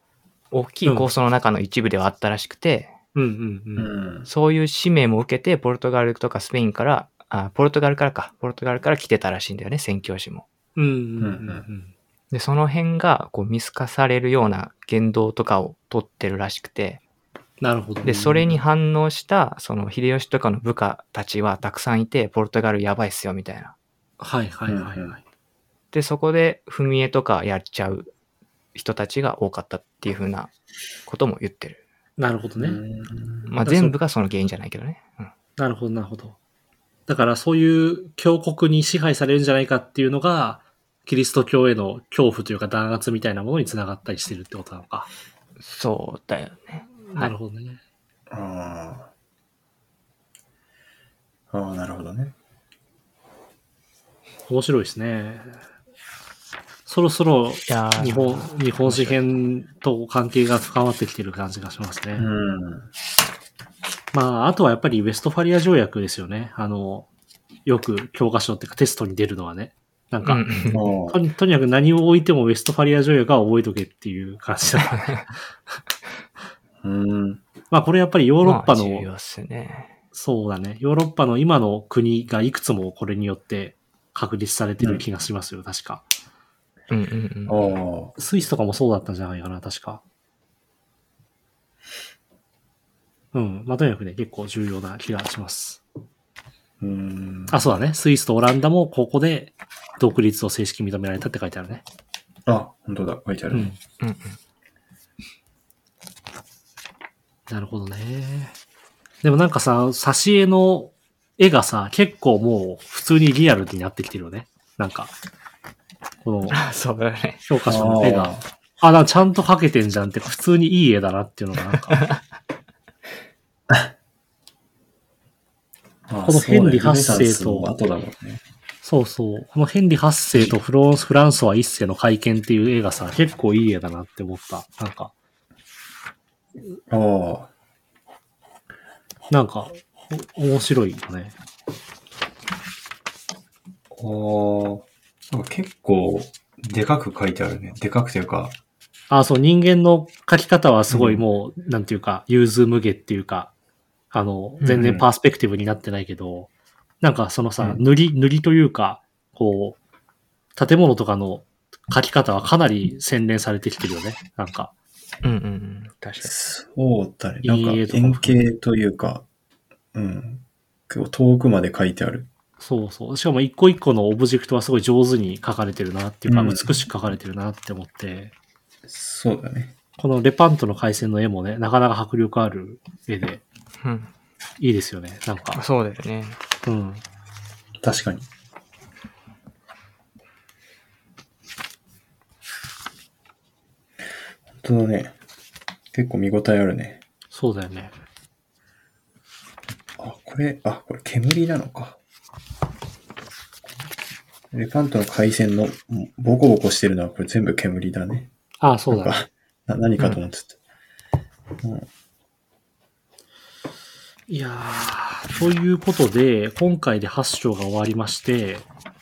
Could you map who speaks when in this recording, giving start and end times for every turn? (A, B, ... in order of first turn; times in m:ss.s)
0:00.5-0:02.9 A
0:03.2-0:03.9 B
0:03.8-0:04.3 C
0:04.3-0:10.5 A
0:10.8-0:11.9 B
0:11.2-0:11.6 C
0:12.3-0:17.0 A
0:17.6-0:18.5 B
0:18.0-0:23.7 A
0:24.2-0:25.2 B
0:24.7-0:25.2 C
0:25.9-0:28.1 A
0:28.8-0:30.5 A
0:31.1-0:31.8 A
0:32.2-0:32.8 B
0:32.6-0:33.6 C
0:33.5-0:35.3 A
0:33.6-0:34.0 B
0:35.6-0:36.4 B
0:37.1-0:45.1 B
0:45.6-0:47.3 A
0:47.2-0:47.8 B
0:48.3-0:49.1 C
0:51.5-0:52.3 C
0:54.5-0:55.6 B
0:56.9-1:02.3 B
0:57.7-0:59.3 A
1:02.2-1:02.9 C
1:04.1-1:07.1 B
1:07.7-1:10.5 B
1:10.2-1:10.9 A
1:10.7-1:11.2 C
1:11.1-1:15.4 B
1:16.8-1:17.4 C
1:17.7-1:19.1 B
1:18.4-1:19.9 A
1:20.1-1:26.1 B
1:26.9-1:27.7 A
1:27.5-1:28.1 C
1:28.2-1:30.0 B
1:33.3-1:35.8 B
1:36.8-1:37.6 C
1:37.5-1:41.8 B
1:42.5-1:43.7 C
1:43.5-1:43.8 B
1:44.0-1:44.4 A
1:47.5-1:48.6 B
1:49.2-1:55.1 B
1:56.2-1:56.6 B
1:56.5-1:57.4 A
1:57.5-2:02.0 B
1:57.7-1:58.5 C
2:06.1-2:08.4 C
2:06.3-2:07.7 B
2:08.8-2:15.1 B
2:16.9-2:17.5 C
2:19.3-2:21.4 B
2:23.9-2:28.6 C
2:29.1-2:33.5 B
2:30.9-2:31.2 C
2:34.1-2:36.5 B
2:34.6-2:35.1 C
2:37.0-2:39.8 B
2:40.6-2:44.7 B
2:45.2-2:46.3 A
2:46.2-2:49.2 C
2:47.4-2:48.3 B
2:49.9-2:52.3 C
2:52.6-2:58.3 B
2:56.3-2:56.8 C
2:58.9-2:59.8 C
3:00.0-3:03.4 B
3:03.8-3:04.1 A
3:04.6-3:05.6 B
3:05.6-3:06.4 A
3:06.6-3:07.0 B
3:07.8-3:08.3 C
3:14.5-3:15.2 C
3:15.9-3:17.0 C
3:17.3-3:17.9 B
3:20.0-3:22.0 C
3:24.5-3:28.3 C
3:28.6-3:29.2 B
3:28.9-3:30.6 C
3:31.6-3:31.9 C
3:34.3-3:38.7 B